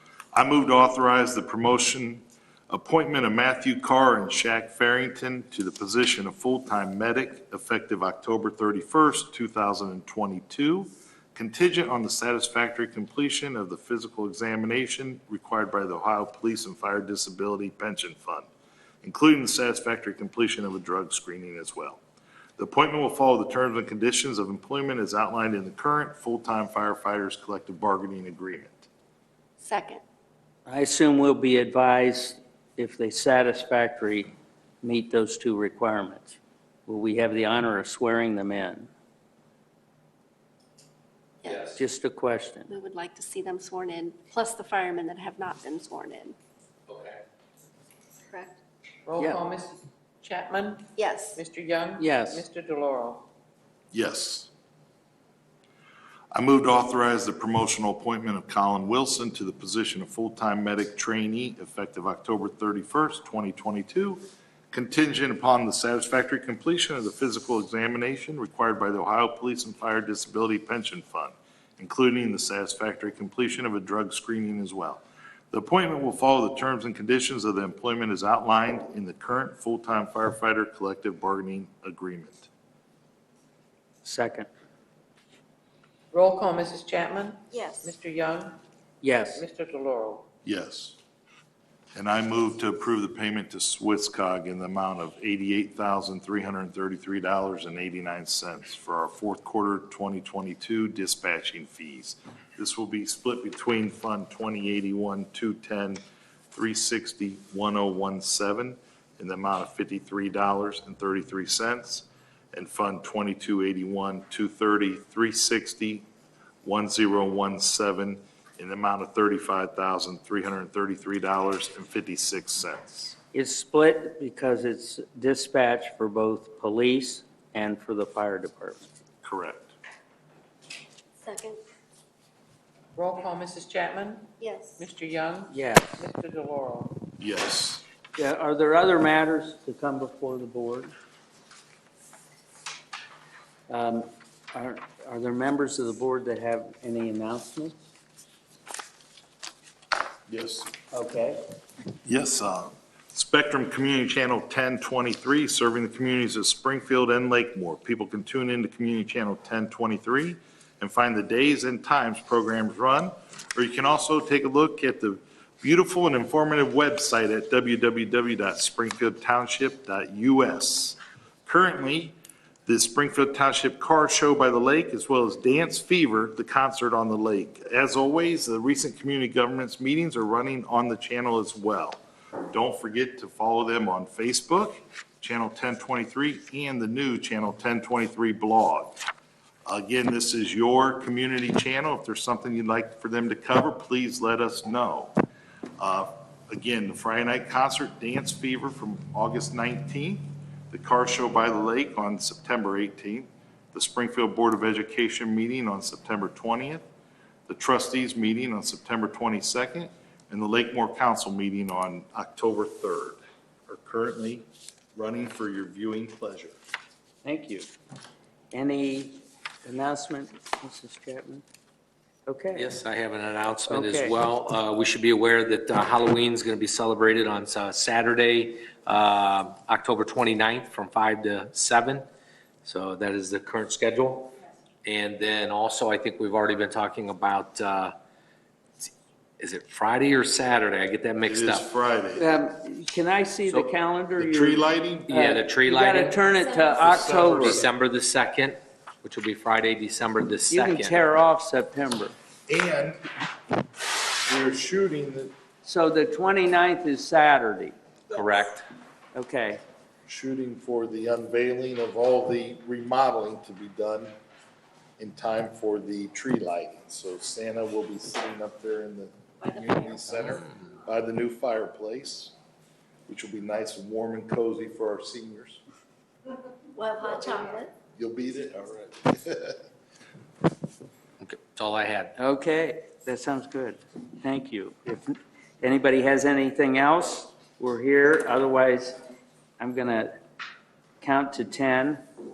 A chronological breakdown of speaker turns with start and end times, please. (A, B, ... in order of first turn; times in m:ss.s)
0:00.3-0:18.5 A
0:19.0-0:22.0 A
0:22.6-0:28.9 A
0:29.6-0:30.0 B
0:30.7-0:34.3 C
0:34.8-0:38.9 C
0:41.4-0:41.8 B
0:41.5-0:41.8 D
0:41.8-0:42.7 C
0:42.7-0:46.4 B
0:46.9-0:47.2 D
0:48.2-0:48.6 B
0:49.1-0:53.3 E
0:49.2-0:49.5 C
0:51.0-0:51.4 B
0:52.0-0:52.4 C
0:53.9-0:54.5 A
0:56.3-1:04.2 A
1:04.7-1:22.5 A
1:24.0-1:24.5 C
1:26.1-1:28.6 E
1:27.5-1:27.9 B
1:29.0-1:29.4 C
1:29.3-1:30.3 E
1:30.5-1:31.0 A
1:32.0-1:56.0 A
1:56.6-2:03.2 A
2:03.3-2:08.9 C
2:09.2-2:09.7 A
2:11.2-2:11.6 B
2:13.0-2:17.0 E
2:14.4-2:14.8 B
2:15.5-2:16.0 C
2:17.2-2:17.8 A
2:18.2-2:20.9 C
2:23.7-2:27.8 C
2:30.3-2:30.7 A
2:30.9-2:31.4 C
2:32.0-3:09.0 A
3:09.7-3:15.2 A
3:15.8-3:26.8 A
3:27.5-3:36.6 A
3:37.2-3:37.7 C
3:38.5-3:41.4 C
3:42.3-3:42.7 C
3:42.6-3:52.0 D
3:43.7-3:44.2 C
3:52.6-3:58.0 D
3:58.8-4:01.7 D
4:01.2-4:02.3 A
4:02.2-4:07.6 C
4:04.2-4:05.1 A
4:05.1-4:06.4 D
4:06.8-4:07.6 A
4:07.3-4:11.1 D
4:10.5-4:12.2 C
4:12.5-4:13.0 A
4:14.2-4:15.3 A
4:15.6-4:17.8 C
4:18.1-4:18.6 D
4:19.2-4:19.6 C
4:20.1-4:24.2 A
4:25.0-4:32.3 A
4:33.1-4:35.6 A
4:36.8-4:37.7 B
4:38.0-4:39.6 A
4:41.2-4:42.1 D
4:42.2-4:49.0 C
4:49.6-4:50.1 C
4:51.0-4:52.0 C